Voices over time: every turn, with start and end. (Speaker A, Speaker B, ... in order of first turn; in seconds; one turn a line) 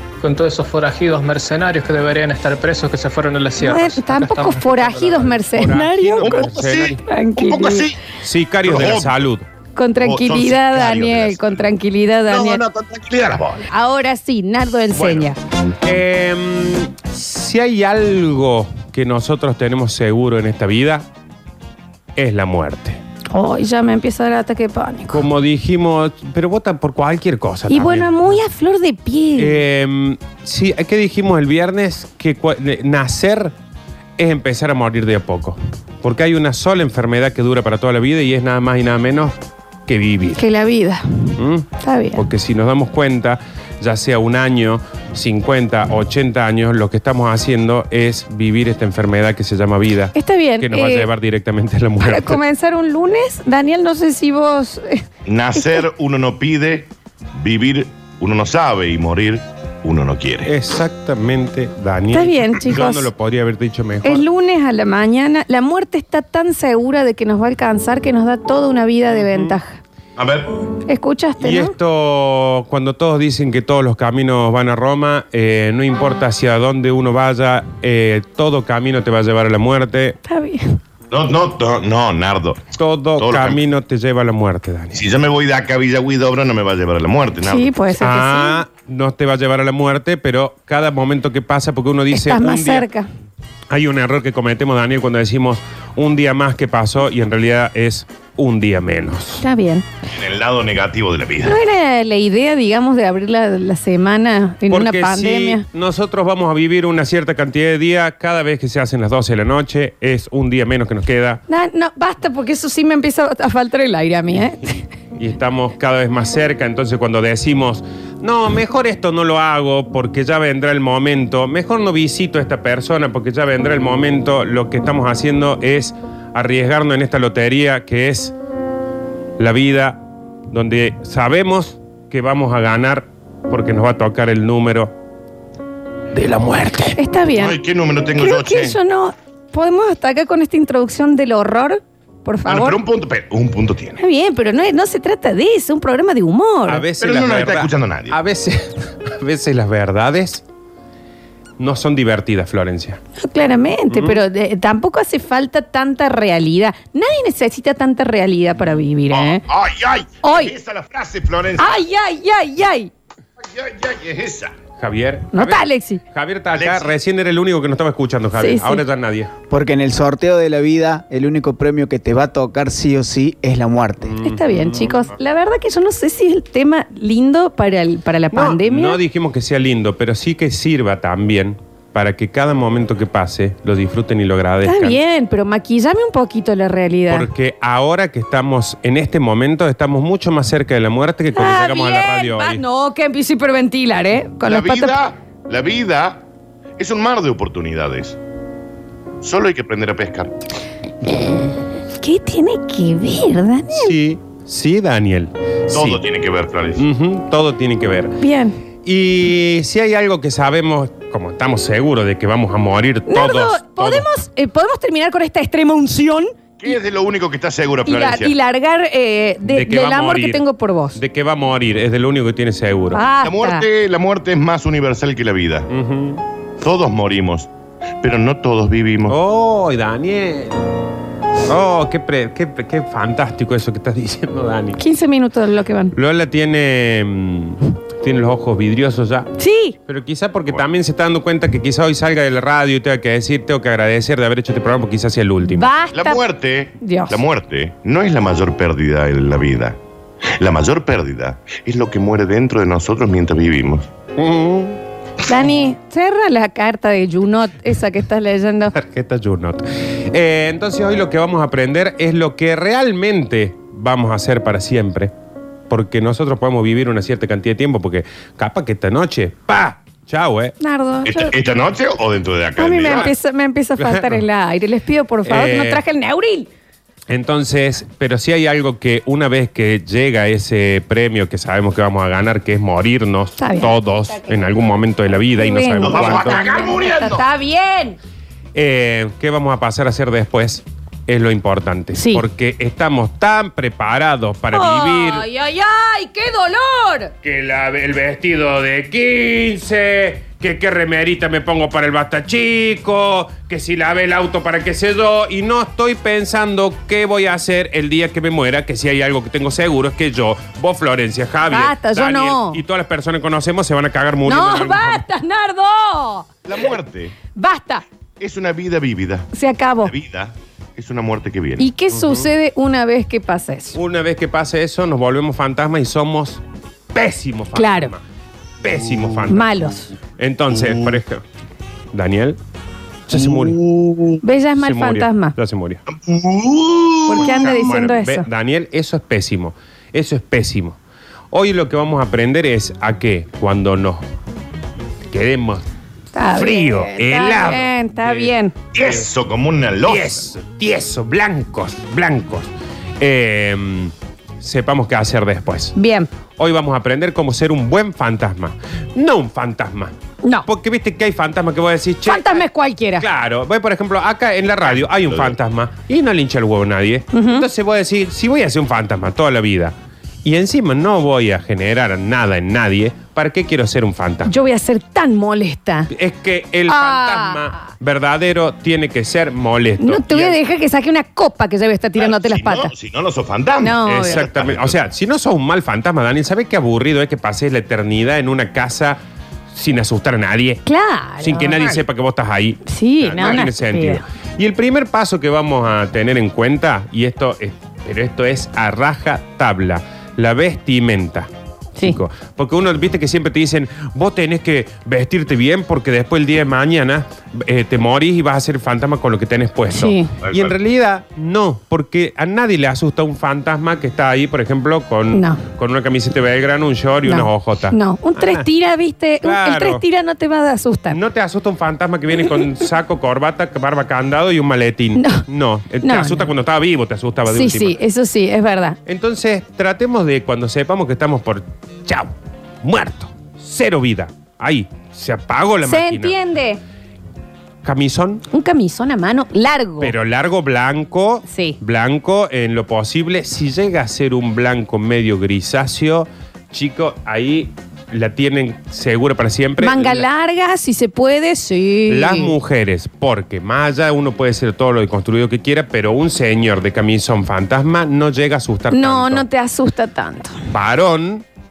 Speaker A: 0.2-5.4
Speaker B: 3.6-6.4
Speaker C: 5.5-7.0
Speaker D: 6.2-8.0
Speaker B: 7.1-7.8
Speaker C: 8.2-9.5
Speaker D: 8.7-9.2
Speaker B: 9.8-12.6
Speaker D: 10.0-11.7
Speaker D: 12.3-13.7
Speaker B: 13.7-15.4
Speaker C: 14.9-15.3
Speaker C: 15.8-21.0
Speaker C: 22.2-23.0
Speaker B: 23.3-25.2
Speaker C: 25.1-28.4
Speaker B: 27.7-29.6
Speaker C: 29.4-33.5
Speaker C: 34.2-39.3
Speaker C: 39.9-40.4
Speaker B: 40.4-41.0
Speaker C: 41.4-52.4
Speaker B: 41.8-42.2
Speaker B: 50.1-51.1
Speaker B: 52.0-55.0
Speaker D: 55.2-60.5
Speaker C: 60.4-64.2
Speaker B: 62.1-63.1
Speaker B: 64.0-69.8
Speaker C: 69.1-69.6
Speaker D: 70.2-70.5
Speaker B: 70.9-71.7
Speaker C: 71.4-80.2
Speaker B: 80.3-80.8
Speaker D: 81.1-82.6
Speaker C: 82.8-85.0
Speaker D: 83.2-83.6
Speaker D: 84.9-87.7
Speaker B: 87.4-88.6
Speaker C: 88.0-92.9
Speaker B: 92.1-93.1
Speaker C: 93.7-99.4
Speaker B: 99.4-99.8
Speaker D: 100.1-101.6
Speaker B: 101.4-105.6
Speaker C: 104.7-111.4
Speaker B: 111.5-114.8
Speaker C: 115.1-128.3
Speaker C: 129.4-134.9
Speaker C: 136.1-137.0
Speaker B: 136.9-137.6
Speaker D: 137.3-138.8
Speaker B: 138.2-142.8
Speaker D: 142.4-144.0
Speaker B: 144.0-146.8
Speaker C: 146.7-150.4
Speaker D: 147.0-148.2
Speaker C: 151.6-153.0
Speaker B: 153.2-159.4
Speaker C: 153.9-154.2
Speaker D: 159.1-161.8
Speaker B: 160.2-160.5
Speaker B: 161.6-162.9
Speaker D: 163.4-164.6
Speaker C: 164.8-169.3
Speaker B: 165.3-166.0
Speaker D: 166.5-166.9
Speaker B: 168.3-168.8
Speaker E: 169.5-174.2
Speaker C: 174.1-174.9
Speaker B: 174.2-179.0
Speaker C: 178.3-185.0
Speaker B: 184.6-187.3
Speaker C: 187.1-192.6
Speaker B: 191.3-194.9
Speaker D: 194.4-196.2
Speaker D: 196.8-198.2
Speaker D: 199.2-200.3
Speaker B: 202.0-203.9
Speaker C: 203.7-206.0
Speaker D: 205.7-206.8
Speaker C: 206.8-208.2
Speaker B: 208.2-208.6
Speaker C: 208.8-214.1
Speaker B: 213.1-216.3
Speaker D: 216.6-218.3
Speaker B: 217.9-221.0
Speaker C: 219.4-220.4
Speaker C: 220.9-223.0
Speaker B: 222.9-223.6
Speaker D: 223.2-225.7
Speaker C: 225.7-226.2
Speaker D: 226.6-227.5
Speaker D: 228.0-229.2
Speaker C: 229.1-230.6
Speaker C: 231.5-234.8
Speaker B: 234.8-235.9
Speaker C: 235.9-239.3
Speaker B: 239.4-239.8
Speaker C: 239.9-245.7
Speaker B: 245.4-246.2
Speaker D: 245.9-249.8
Speaker B: 246.8-247.2
Speaker D: 250.4-253.9
Speaker C: 254.2-254.8
Speaker B: 255.3-258.7
Speaker C: 258.7-265.1
Speaker C: 265.7-270.6
Speaker B: 270.6-271.3
Speaker D: 271.1-273.1
Speaker B: 272.6-276.5
Speaker C: 272.9-273.1
Speaker C: 273.8-274.2
Speaker C: 275.2-275.8
Speaker C: 277.1-286.4
Speaker B: 283.4-284.6
Speaker B: 285.4-288.0
Speaker D: 285.8-287.2
Speaker C: 288.6-295.2
Speaker B: 291.9-292.2
Speaker B: 294.5-297.1
Speaker C: 297.2-315.0
Speaker B: 311.5-312.6
Speaker B: 314.2-316.3
Speaker D: 316.5-317.1
Speaker B: 317.4-317.8
Speaker D: 318.2-319.3
Speaker B: 319.3-319.9
Speaker D: 319.8-321.6
Speaker B: 321.6-323.8
Speaker C: 321.9-322.2
Speaker C: 323.8-326.4
Speaker C: 326.9-328.0
Speaker B: 327.5-327.9
Speaker C: 328.6-329.5
Speaker B: 329.3-329.9
Speaker C: 330.2-331.2
Speaker D: 330.5-330.9
Speaker C: 331.9-332.4
Speaker C: 333.1-333.6
Speaker D: 333.1-334.2
Speaker B: 334.2-335.3
Speaker C: 334.6-335.8
Speaker D: 335.9-337.5
Speaker B: 337.1-338.2
Speaker C: 337.1-340.8
Speaker C: 341.3-344.0
Speaker C: 345.1-345.6
Speaker B: 346.1-348.5
Speaker C: 346.4-349.1
Speaker D: 348.8-350.2
Speaker C: 349.9-352.5
Speaker C: 353.0-355.7
Speaker B: 355.8-356.1
Speaker C: 356.4-359.9
Speaker C: 360.5-362.4
Speaker B: 362.1-363.0
Speaker C: 363.0-374.3
Speaker D: 364.6-365.4
Speaker B: 367.1-367.5
Speaker B: 374.2-375.9
Speaker C: 375.9-380.4
Speaker B: 376.7-377.6
Speaker B: 379.8-382.7
Speaker D: 382.0-384.7
Speaker B: 383.6-384.2
Speaker C: 383.9-389.0
Speaker C: 389.5-390.6
Speaker B: 390.6-391.8
Speaker C: 391.2-401.3
Speaker B: 392.6-394.0
Speaker C: 401.8-418.5
Speaker B: 409.7-410.1
Speaker D: 410.2-410.5
Speaker B: 415.1-415.4
Speaker B: 417.1-421.0
Speaker C: 419.2-419.8
Speaker C: 420.9-427.8
Speaker B: 425.0-425.2
Speaker B: 425.8-426.3
Speaker B: 427.3-428.8
Speaker C: 428.9-432.1
Speaker C: 432.6-436.1
Speaker B: 435.6-436.6
Speaker C: 437.6-438.2
Speaker B: 438.3-439.9
Speaker C: 439.8-450.1
Speaker B: 441.3-441.6
Speaker B: 449.6-452.3
Speaker C: 451.9-459.2
Speaker B: 458.7-460.4
Speaker C: 460.5-461.2